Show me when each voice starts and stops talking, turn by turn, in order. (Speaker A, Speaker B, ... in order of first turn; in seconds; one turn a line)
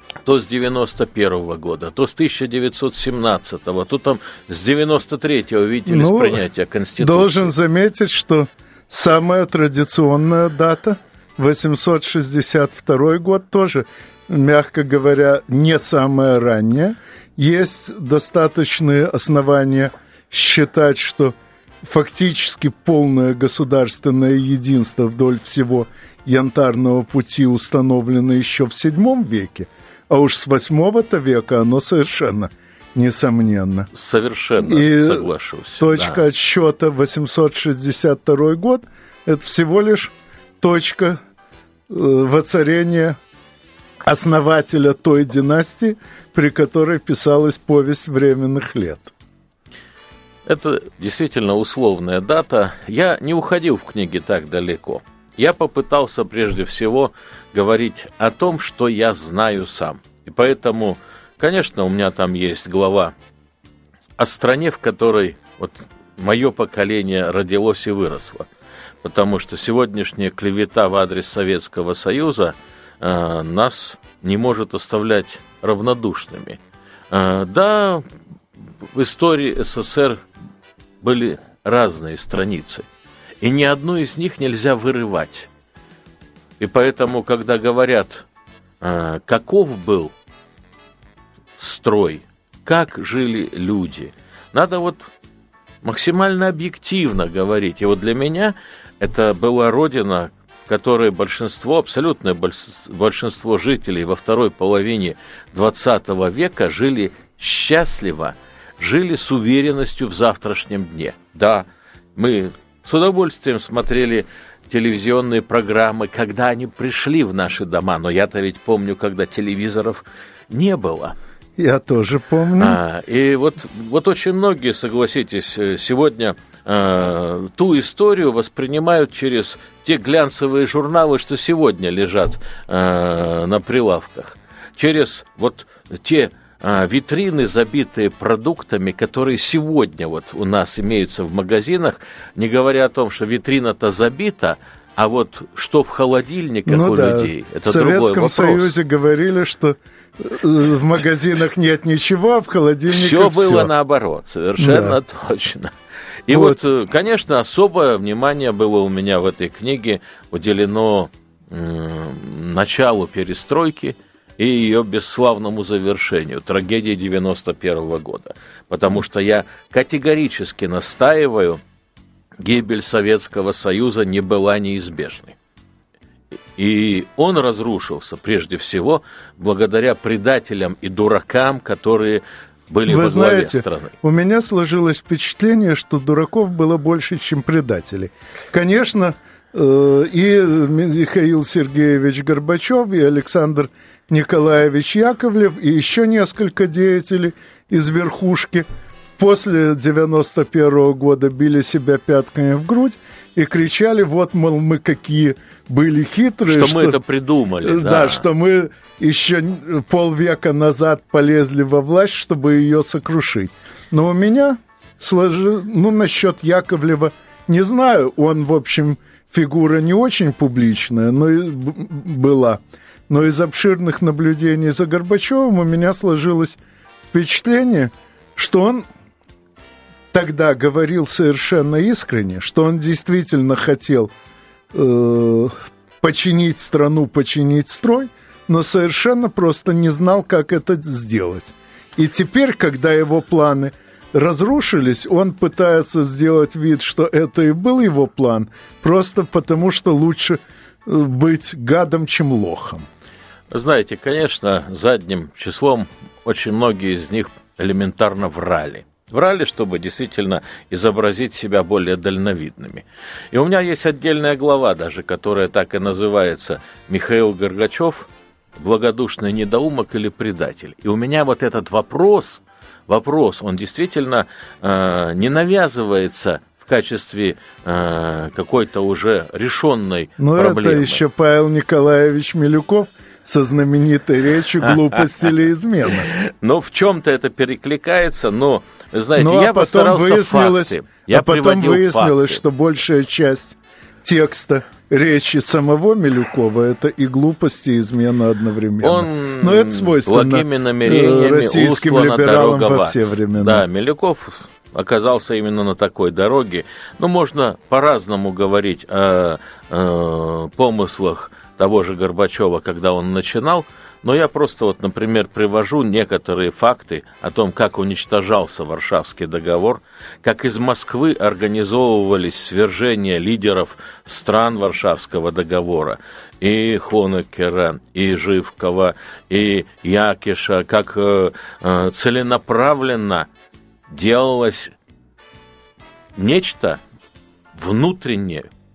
Speaker A: 0.2-7.5
Speaker B: 5.9-6.4
Speaker B: 7.0-33.9
Speaker A: 33.9-36.2
Speaker B: 34.6-35.3
Speaker B: 35.8-41.2
Speaker B: 41.9-43.2
Speaker B: 44.0-49.1
Speaker A: 50.5-63.1
Speaker A: 64.2-68.5
Speaker A: 69.0-76.6
Speaker A: 77.1-78.0
Speaker A: 78.8-80.2
Speaker A: 81.0-82.8
Speaker A: 83.4-85.5
Speaker A: 86.6-88.2
Speaker A: 88.8-90.1
Speaker A: 91.6-95.1
Speaker A: 95.8-121.1
Speaker B: 121.6-122.8
Speaker A: 122.6-148.7
Speaker B: 146.7-153.7
Speaker A: 152.9-155.7
Speaker B: 154.6-155.0
Speaker A: 156.3-171.6
Speaker B: 156.3-156.6
Speaker A: 172.4-175.3
Speaker A: 176.6-183.9
Speaker B: 182.9-198.7
Speaker B: 199.2-207.0
Speaker A: 206.4-208.2
Speaker B: 207.6-226.6
Speaker B: 227.1-228.8
Speaker B: 230.1-234.1
Speaker B: 234.7-252.8
Speaker A: 253.5-281.0
Speaker B: 280.2-286.1
Speaker A: 286.0-292.4
Speaker B: 289.2-303.6
Speaker A: 298.8-333.3
Speaker A: 333.9-334.7
Speaker A: 336.1-336.8
Speaker A: 337.5-338.5